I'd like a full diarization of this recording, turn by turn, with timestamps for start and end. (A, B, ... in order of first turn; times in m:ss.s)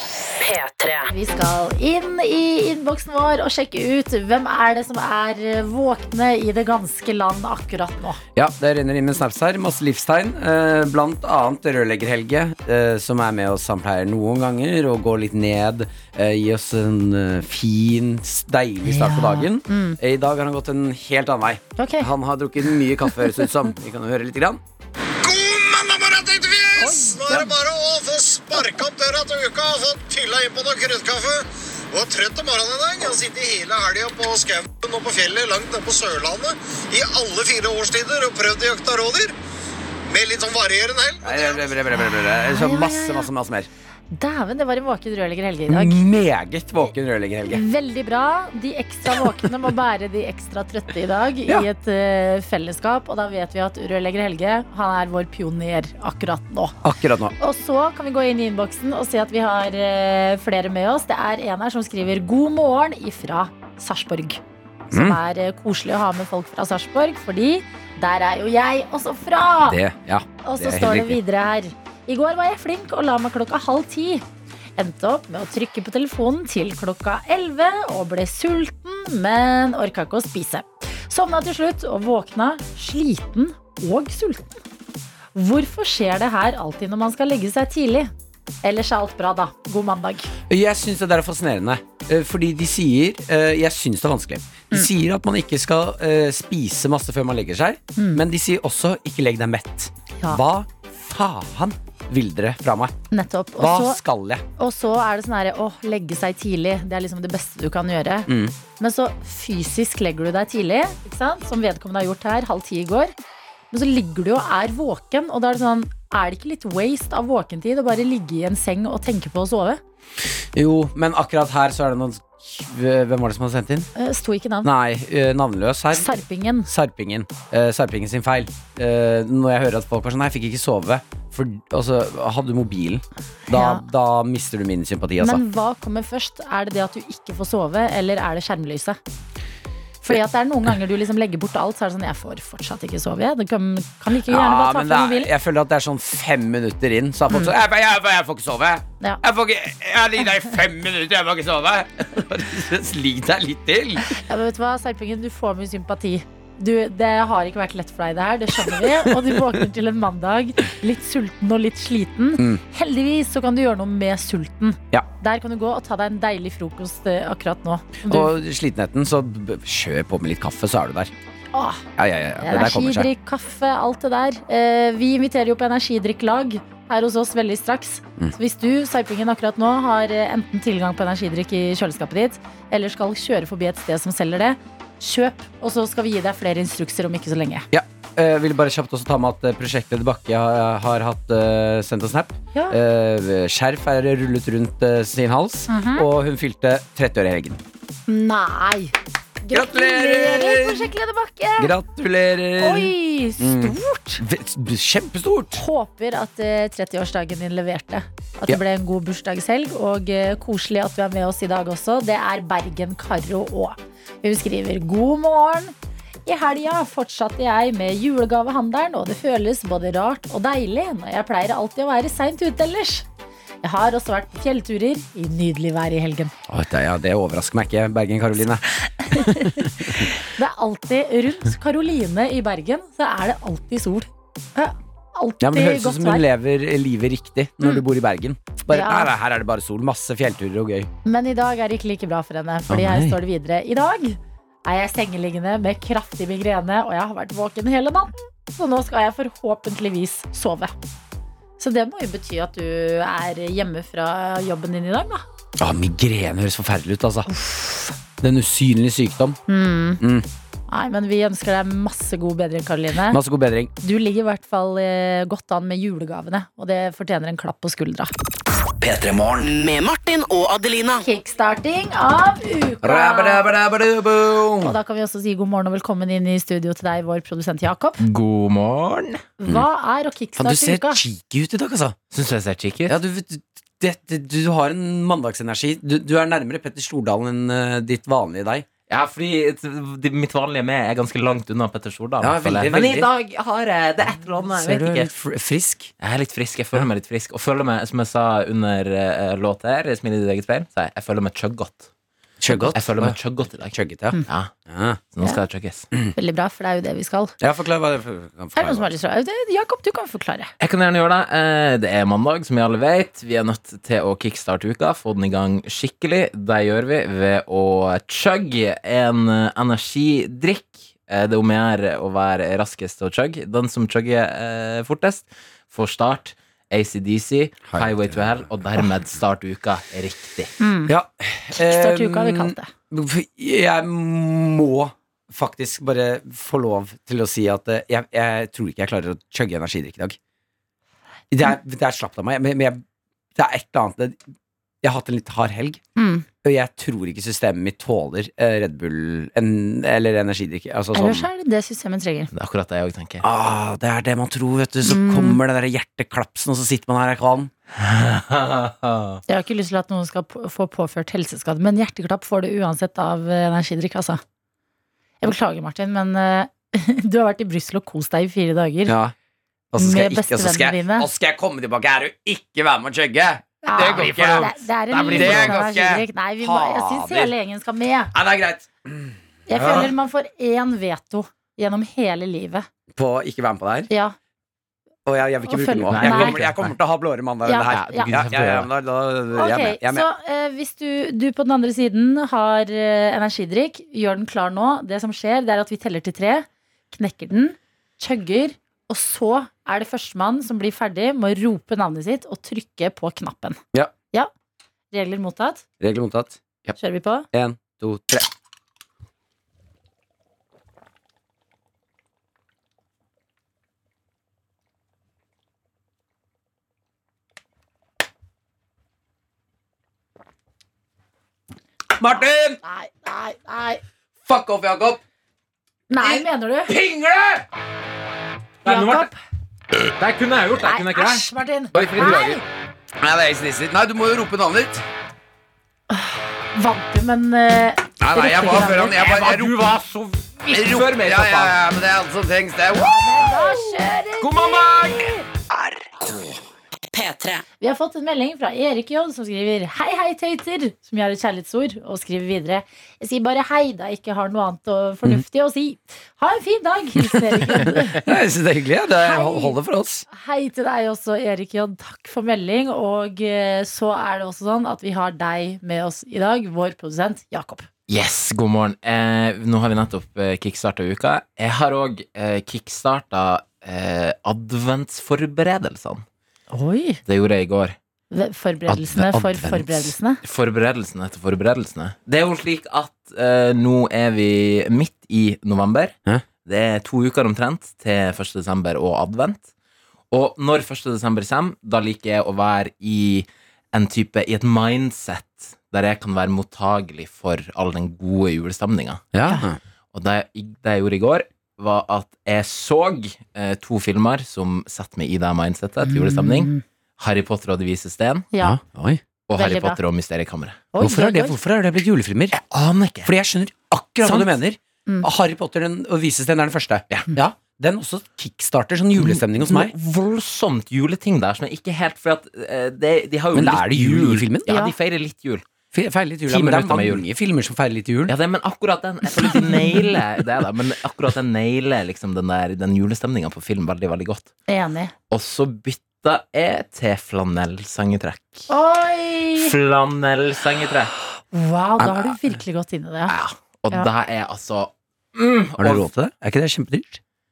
0:00.4-0:01.1 A
0:01.1-0:08.2 B
0:08.4-0:24.6 C
0:18.8-0:20.0 B
0:21.8-0:22.1 B
0:23.1-0:23.4 B
0:25.2-0:39.3 D
0:26.8-0:27.5 B
0:40.1-0:41.8 D
0:41.2-0:43.7 C
0:42.4-0:43.3 B
0:44.1-0:46.0 B
0:45.7-0:47.6 C
0:47.5-0:56.8 B
0:56.8-0:57.3 C
0:57.4-1:09.8 B
1:04.9-1:05.2 C
1:09.6-1:11.2 C
1:10.4-1:14.2 B
1:14.8-1:24.6 B
1:25.3-1:28.1 B
1:28.6-1:30.3 B
1:30.5-1:43.0 C
1:38.0-1:38.2 B
1:43.1-1:44.0 B
1:43.6-1:44.4 C
1:44.6-1:53.1 B
1:48.3-1:48.5 C
1:53.7-1:59.8 B
2:00.5-2:03.9 C
2:04.0-2:04.7 B
2:04.6-2:15.4 C
2:05.9-2:06.7 B
2:13.5-2:13.8 B
2:15.2-2:19.0 B
2:20.0-2:25.3 B
2:24.3-2:34.1 C
2:34.0-2:48.3 B
2:48.1-2:51.1 C
2:51.5-2:51.8 B
2:52.0-2:53.1 C
2:52.4-3:07.6 B
3:07.7-3:17.6 C
3:15.7-3:16.1 B
3:18.1-3:21.7 B
3:19.5-3:20.9 C
3:21.6-3:25.6 C
3:22.6-3:24.2 B
3:25.6-3:35.7 B
3:36.2-3:43.0 B
3:43.6-3:46.3 B
3:46.5-3:50.1 C
3:49.0-3:56.2 B
3:55.4-4:00.9 C
3:58.7-3:59.1 B
4:01.0-4:10.7 B
4:02.7-4:03.2 C
4:11.6-4:15.2 B
4:15.6-4:17.3 C
4:17.3-4:17.9 B
4:18.2-4:19.4 C
4:19.5-4:20.0 B
4:20.0-4:20.2 C
4:20.7-4:23.2 B
4:23.1-4:23.7 C
4:23.8-4:28.1 B
4:28.8-4:31.0 A
4:31.0-4:33.5 B
4:32.8-4:34.7 C
4:34.6-4:38.0 B
4:38.0-4:39.2 E
4:39.4-4:41.0 B
4:40.4-4:42.0 C
4:42.1-4:43.0 E
4:42.9-4:48.6 C
4:48.9-4:55.1 E
4:52.2-4:53.1 C
4:54.6-4:55.9 C
4:56.0-5:01.9 E
5:02.4-5:03.2 C
5:02.7-5:03.7 E
5:03.7-5:04.2 C
5:04.2-5:04.5 E
5:04.7-5:05.0 C
5:05.1-5:05.9 E
5:06.1-5:07.3 B
5:07.4-5:08.9 C
5:08.5-5:10.5 B
5:10.6-5:30.5 E
5:27.7-5:28.2 C
5:30.6-5:30.9 B
5:30.9-5:40.2 C
5:31.6-5:32.7 B
5:41.3-5:42.8 C
5:43.4-5:44.2 C
5:44.8-5:45.8 C
5:46.0-5:46.2 B
5:46.4-5:51.3 C
5:50.9-5:52.3 B
5:52.3-5:53.2 E
5:53.2-5:57.5 C
5:54.8-5:55.4 B
5:57.7-5:59.2 E
5:59.3-6:04.2 B
6:05.2-6:09.0 B
6:08.9-6:09.1 C
6:09.7-6:17.3 C
6:09.8-6:11.1 B
6:13.6-6:18.1 B
6:14.0-6:15.6 E
6:18.1-6:19.9 C
6:19.5-6:22.7 B
6:22.9-6:23.9 C
6:23.9-6:24.1 B
6:25.0-6:30.1 C
6:25.5-6:26.4 B
6:25.9-6:26.7 E
6:27.4-6:28.1 B
6:27.6-6:28.7 E
6:29.3-6:43.6 B
6:44.9-6:45.6 B
6:45.8-6:46.8 C
6:46.8-6:47.3 B
6:47.3-6:48.3 C
7:02.0-7:02.6 C
7:02.6-7:03.8 B
7:04.2-7:05.0 C
7:05.9-7:06.7 B
7:06.7-7:07.4 E
7:08.6-7:09.1 E
7:08.6-7:09.2 B
7:10.0-7:12.4 E
7:10.6-7:12.4 B
7:11.7-7:12.4 C
7:13.0-7:14.8 C
7:15.9-7:19.0 B
7:18.0-7:19.6 C
7:18.8-7:21.6 E
7:20.5-7:23.3 C
7:22.7-7:25.2 B
7:24.2-7:25.2 E
7:25.6-7:26.2 A
7:26.9-7:27.4 A
7:27.6-7:38.1 B
7:38.0-7:40.0 C
7:39.0-7:39.5 B
7:40.1-7:47.7 B
7:47.9-7:56.0 E
7:56.5-7:57.0 B
7:57.1-7:57.8 E
7:58.1-8:00.2 B
7:58.7-7:59.9 C
8:00.2-8:05.9 E
8:06.4-8:09.4 E
8:10.1-8:19.0 E
8:19.1-8:19.6 C
8:19.9-8:28.3 E
8:25.8-8:26.6 B
8:28.3-8:28.6 B
8:28.4-8:29.0 C
8:29.3-8:30.7 E
8:29.4-8:29.8 B
8:30.7-8:31.4 B
8:30.8-8:32.4 C
8:32.3-8:33.1 E
8:33.0-8:39.7 C
8:34.0-8:34.3 E
8:39.0-8:45.5 E
8:43.3-8:44.5 C
8:44.5-8:44.7 B
8:45.7-8:48.1 C
8:46.3-8:47.0 E
8:48.1-8:54.3 E
8:49.2-8:49.9 B
8:54.5-8:54.9 B
8:55.1-8:58.5 E
8:58.5-8:59.5 B
8:59.3-9:00.9 E
9:01.3-9:03.2 B
9:01.8-9:02.2 C
9:03.1-9:05.9 E
9:05.6-9:07.0 C